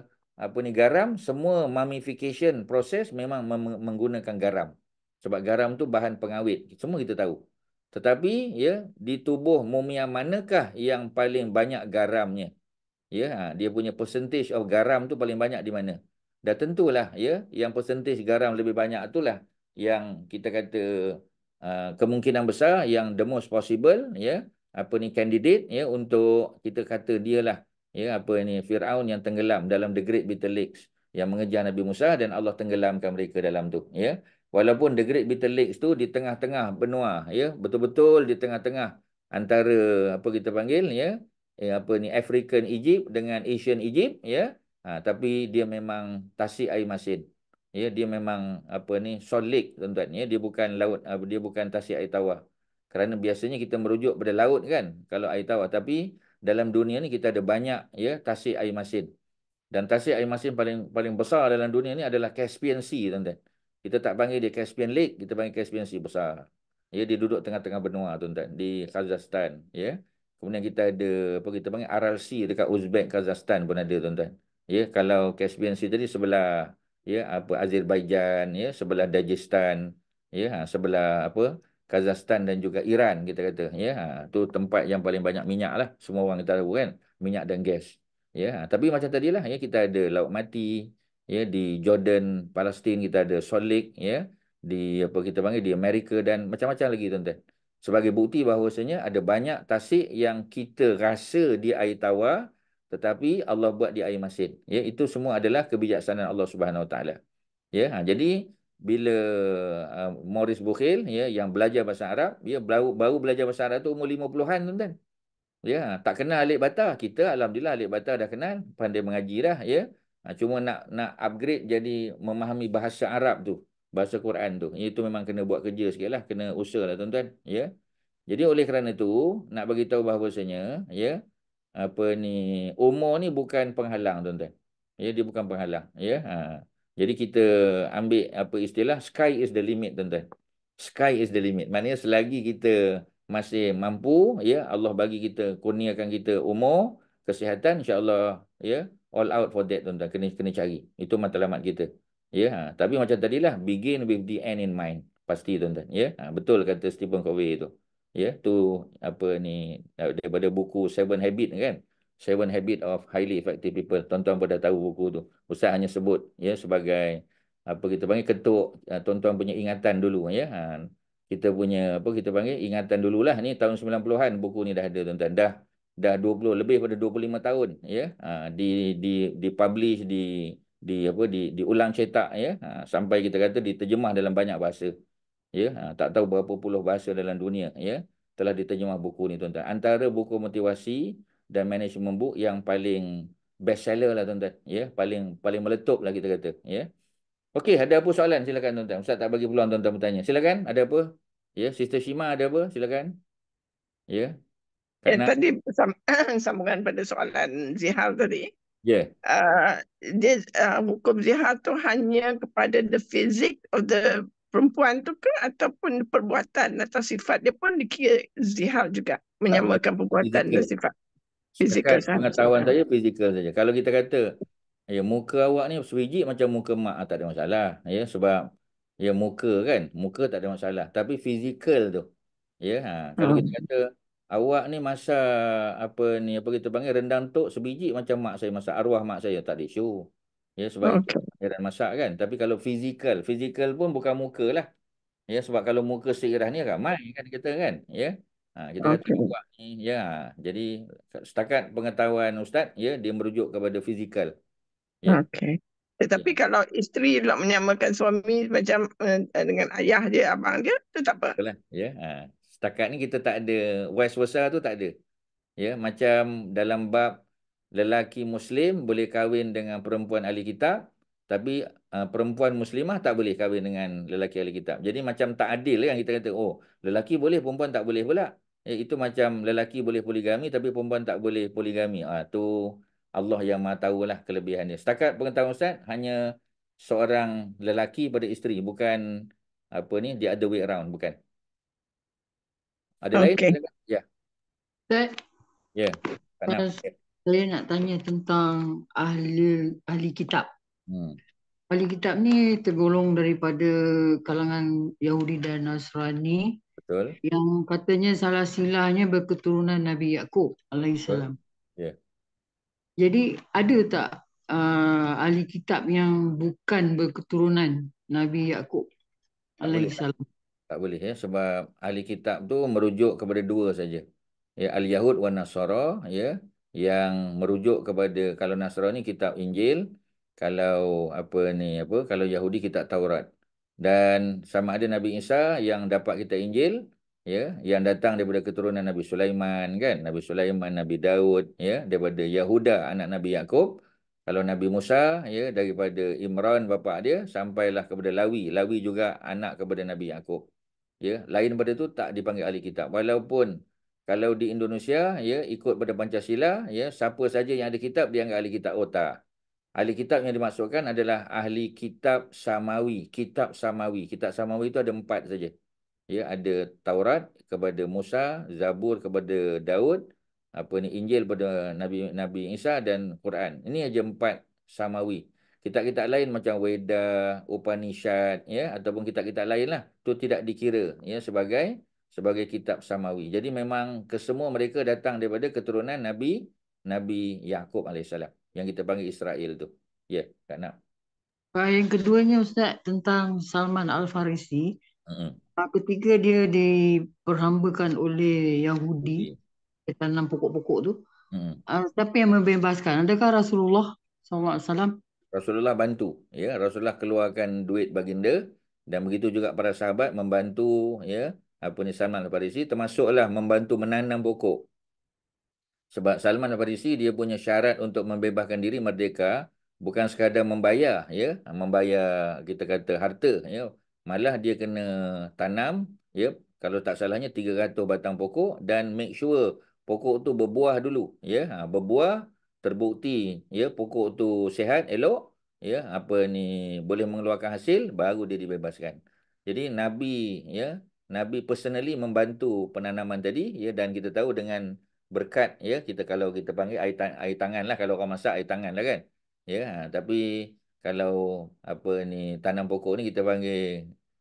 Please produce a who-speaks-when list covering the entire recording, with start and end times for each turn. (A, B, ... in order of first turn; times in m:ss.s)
0:00.4-0:07.4 A
0:07.9-0:12.5 A
0:13.1-0:47.2 A
0:47.7-0:52.4 A
0:52.9-0:59.1 A
0:59.7-1:19.8 A
1:20.3-1:30.7 A
1:31.3-1:42.4 A
1:42.9-1:47.2 A
1:47.7-1:48.3 A
1:48.9-1:54.9 A
1:55.6-2:07.7 A
2:08.3-2:11.2 A
2:11.8-2:20.2 A
2:20.8-2:22.8 A
2:23.3-2:47.2 A
2:47.7-3:00.3 A
3:00.8-3:04.9 A
3:05.5-3:13.1 A
3:13.6-3:16.9 A
3:17.6-3:21.0 A
3:21.6-3:23.1 A
3:25.0-3:25.3 A
3:25.1-3:28.5 B
3:29.3-3:40.9 B
3:39.5-3:40.7 A
3:41.6-3:42.7 B
3:41.7-3:44.2 A
3:44.9-3:48.4 A
3:49.0-3:52.1 A
3:52.6-4:00.0 A
3:53.2-3:53.5 B
4:00.6-4:04.7 A
4:00.8-4:01.2 B
4:05.3-4:14.3 A
4:08.8-4:09.2 B
4:15.1-4:21.4 B
4:21.4-4:24.9 A
4:25.6-4:27.1 A
4:27.8-4:30.8 A
4:31.3-4:42.5 A
4:43.2-4:46.2 A
4:46.8-4:49.0 A
4:49.7-4:51.2 A
4:53.0-4:54.0 A
4:53.1-4:53.5 B
4:54.9-4:55.1 C
4:55.8-4:56.9 A
4:56.5-5:00.5 C
5:00.9-5:01.2 A
5:01.7-5:06.6 C
5:06.8-5:07.2 A
5:07.2-5:11.4 C
5:13.0-5:18.8 C
5:19.6-5:20.2 C
5:19.6-5:20.0 A
5:20.7-5:24.0 A
5:24.6-5:29.8 A
5:30.4-5:33.2 A
5:33.8-5:36.8 A
5:37.3-5:43.7 A
5:44.3-5:50.4 A
5:51.0-5:53.5 A
5:54.1-5:59.1 A
5:59.8-6:05.5 A
6:06.1-6:10.0 A
6:10.6-6:30.8 A
6:31.5-6:34.8 C
6:35.1-6:35.4 A
6:35.6-6:39.3 C
6:39.0-6:39.4 A
6:39.9-6:41.0 C
6:41.3-6:41.6 A
6:41.7-6:44.9 C
6:45.3-6:48.4 A
6:48.9-6:54.6 A
6:55.9-7:04.8 A
7:05.4-7:24.6 A
7:25.1-7:30.2 A
7:30.8-7:33.8 A